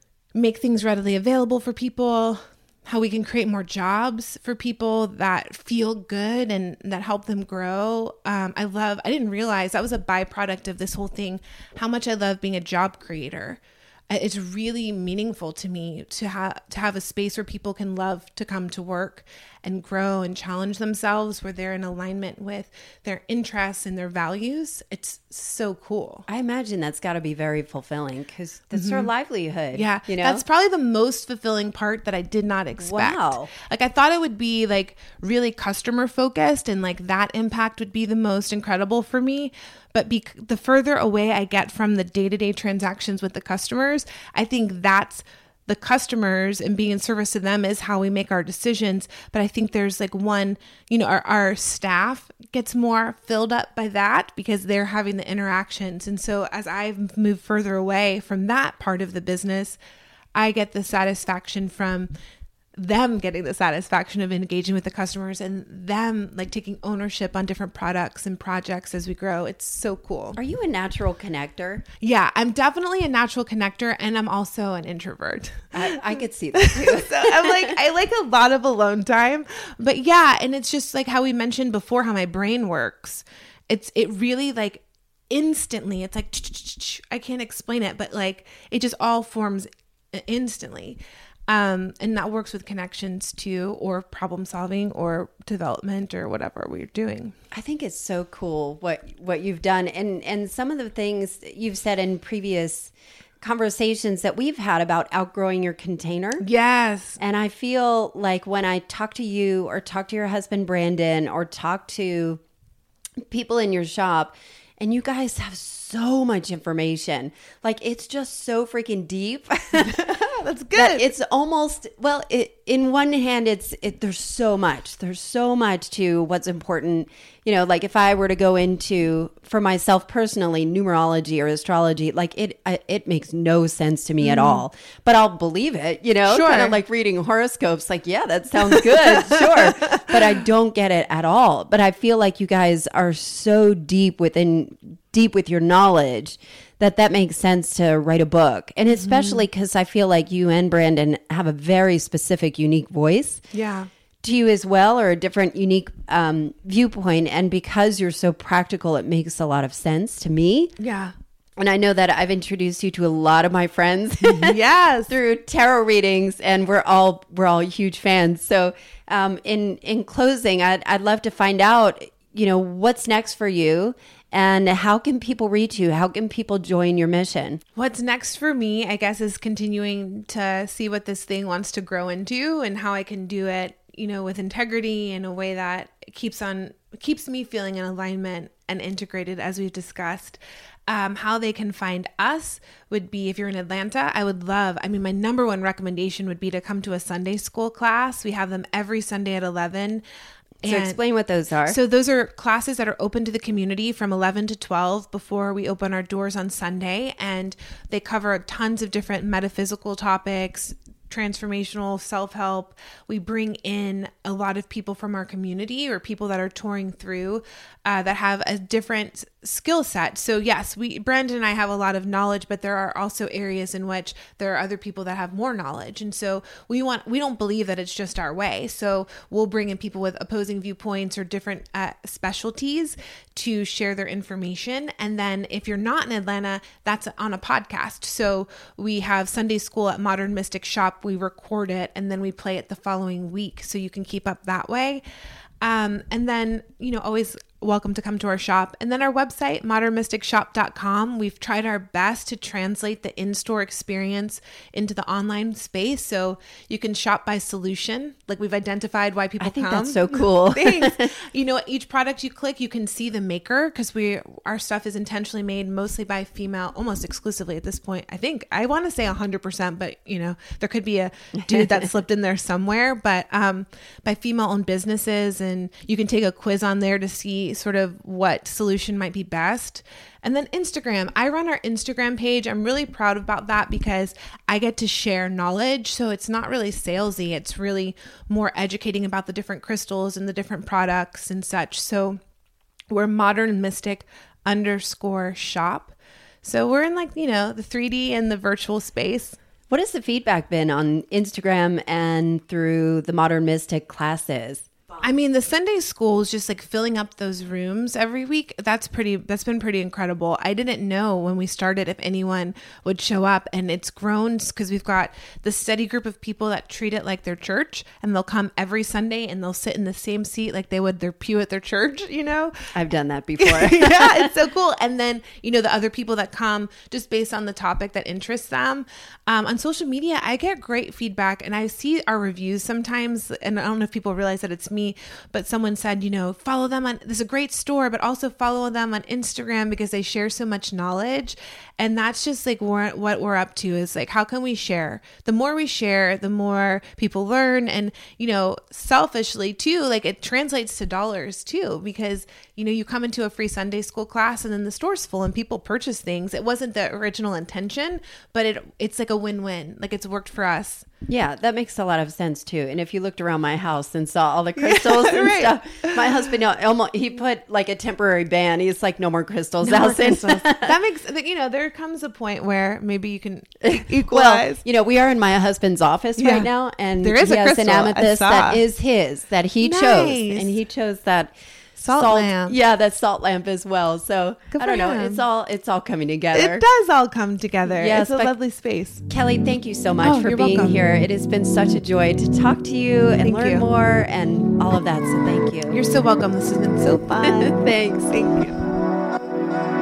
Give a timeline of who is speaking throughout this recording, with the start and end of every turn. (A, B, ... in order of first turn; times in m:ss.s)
0:00.3-0:26.2 A
0:26.3-0:30.4 B
0:28.7-0:29.1 A
0:29.7-0:59.8 A
0:32.8-0:33.5 B
1:00.3-1:02.1 A
1:02.8-1:10.4 A
1:10.4-1:11.8 B
1:12.0-1:37.3 A
1:15.7-1:17.7 B
1:37.5-1:46.4 B
1:46.4-1:47.2 A
1:47.2-1:52.4 B
1:53.3-2:33.4 B
1:59.8-2:01.1 A
2:14.2-2:14.6 A
2:16.3-2:16.8 A
2:18.7-2:20.2 A
2:28.9-2:29.4 A
2:33.5-2:33.9 A
2:34.2-2:40.7 B
2:40.8-2:41.1 A
2:41.6-2:44.6 B
2:44.2-2:45.2 A
2:45.1-2:57.6 B
2:57.8-3:20.0 A
3:20.6-3:21.0 A
3:20.6-3:21.8 B
3:21.6-4:05.0 A
4:05.6-4:52.2 A
4:19.4-4:21.1 B
4:52.9-4:59.4 A
4:59.7-5:04.7 B
5:05.0-5:22.7 A
5:22.7-5:24.2 B
5:23.4-6:00.9 A
6:01.1-6:10.8 B
6:04.6-6:06.2 A
6:09.6-6:14.6 A
6:13.6-6:21.3 B
6:16.2-6:16.5 A
6:17.0-6:18.6 A
6:19.6-6:20.5 A
6:21.8-6:22.6 A
6:21.9-6:26.6 B
6:24.5-6:25.2 A
6:26.3-6:29.0 A
6:27.7-6:28.3 B
6:29.1-6:35.8 B
6:30.0-6:30.8 A
6:33.2-6:33.6 A
6:35.7-6:38.6 A
6:37.2-6:38.4 B